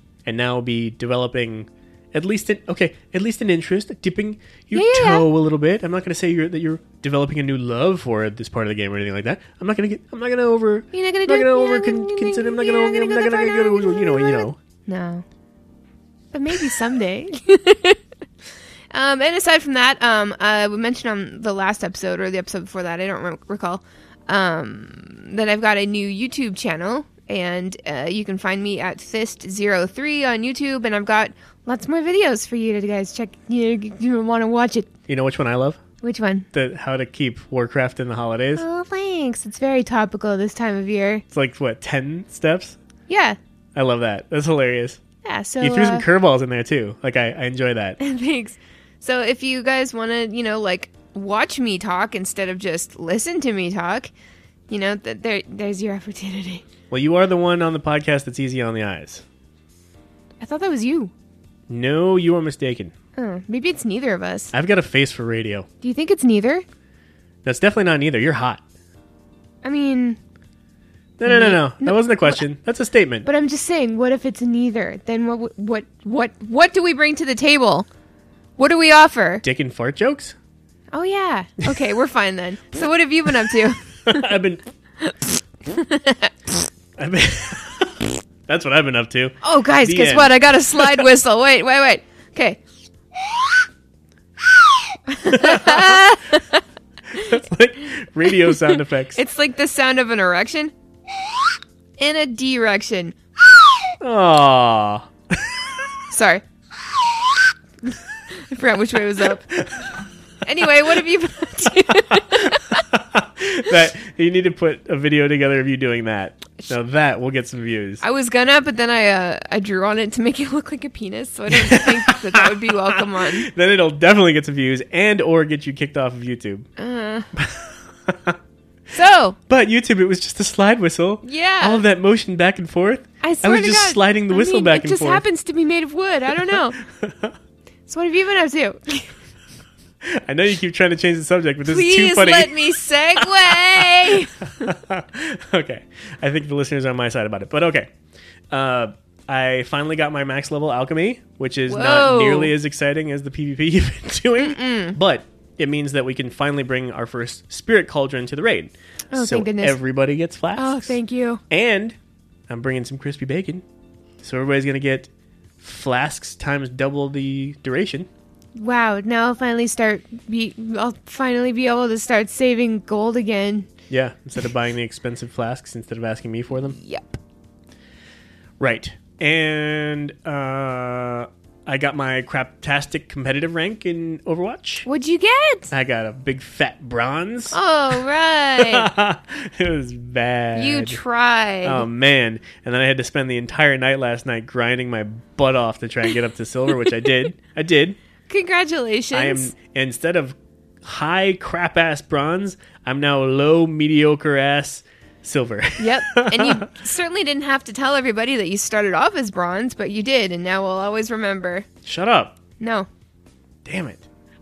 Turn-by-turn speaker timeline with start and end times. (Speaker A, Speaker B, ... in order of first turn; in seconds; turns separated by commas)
Speaker A: 0.3-14.6, Speaker B: 4.7-5.2, Speaker B: 10.9-15.2, Speaker B: 16.3-18.0, Speaker B: 18.9-34.9, Speaker A: 35.1-35.8, Speaker B: 36.0-36.5, Speaker A: 36.5-38.6, Speaker B: 38.6-41.2, Speaker A: 41.3-42.8, Speaker B: 43.1-43.4, Speaker A: 43.8-45.0, Speaker B: 45.2-46.0, Speaker A: 45.6-48.0, Speaker B: 48.0-54.1, Speaker B: 54.7-56.6, Speaker A: 56.9-59.2, Speaker B: 60.4-61.1, Speaker A: 61.7-62.9, Speaker B: 63.2-64.5, Speaker A: 64.5-65.7, Speaker B: 65.8-66.7, Speaker A: 67.5-68.6, Speaker B: 69.6-70.2, Speaker A: 71.2-73.3, Speaker B: 71.3-72.4, Speaker B: 73.2-77.9, Speaker B: 78.6-79.4, Speaker A: 79.4-80.3, Speaker B: 80.9-84.3, Speaker A: 84.1-84.6, Speaker B: 85.0-86.6, Speaker A: 87.0-91.1, Speaker B: 89.4-92.6, Speaker B: 95.1-96.6, Speaker A: 95.3-96.0, Speaker A: 97.2-99.2, Speaker B: 98.5-100.7, Speaker B: 102.0-103.2, Speaker A: 104.0-105.7, Speaker B: 106.1-106.4, Speaker B: 108.3-109.5, Speaker B: 110.5-112.8, Speaker A: 112.2-118.0, Speaker B: 118.0-123.5, Speaker A: 121.5-126.7, Speaker B: 126.8-127.3, Speaker A: 127.3-128.4, Speaker B: 128.9-129.4, Speaker A: 129.5-135.2, Speaker B: 131.2-131.8, Speaker B: 133.2-136.8, Speaker A: 136.4-137.3, Speaker B: 137.9-139.2, Speaker A: 140.0-147.9, Speaker B: 141.7-144.3, Speaker A: 148.5-161.0, Speaker B: 151.7-152.5, Speaker B: 154.4-155.0, Speaker B: 159.1-159.8, Speaker B: 160.6-161.4, Speaker A: 161.5-161.9, Speaker A: 162.5-163.6, Speaker A: 164.2-165.1, Speaker A: 165.6-168.1, Speaker B: 168.6-173.7, Speaker A: 173.9-176.8, Speaker B: 176.8-177.2, Speaker A: 178.6-184.9, Speaker B: 184.8-185.7, Speaker A: 185.7-187.6, Speaker B: 187.5-188.9, Speaker A: 188.6-191.0, Speaker B: 190.6-191.9, Speaker A: 191.7-198.0, Speaker B: 198.3-199.5, Speaker A: 199.1-206.7, Speaker B: 205.8-211.7, Speaker A: 211.8-212.4, Speaker B: 212.6-212.9, Speaker A: 213.7-214.0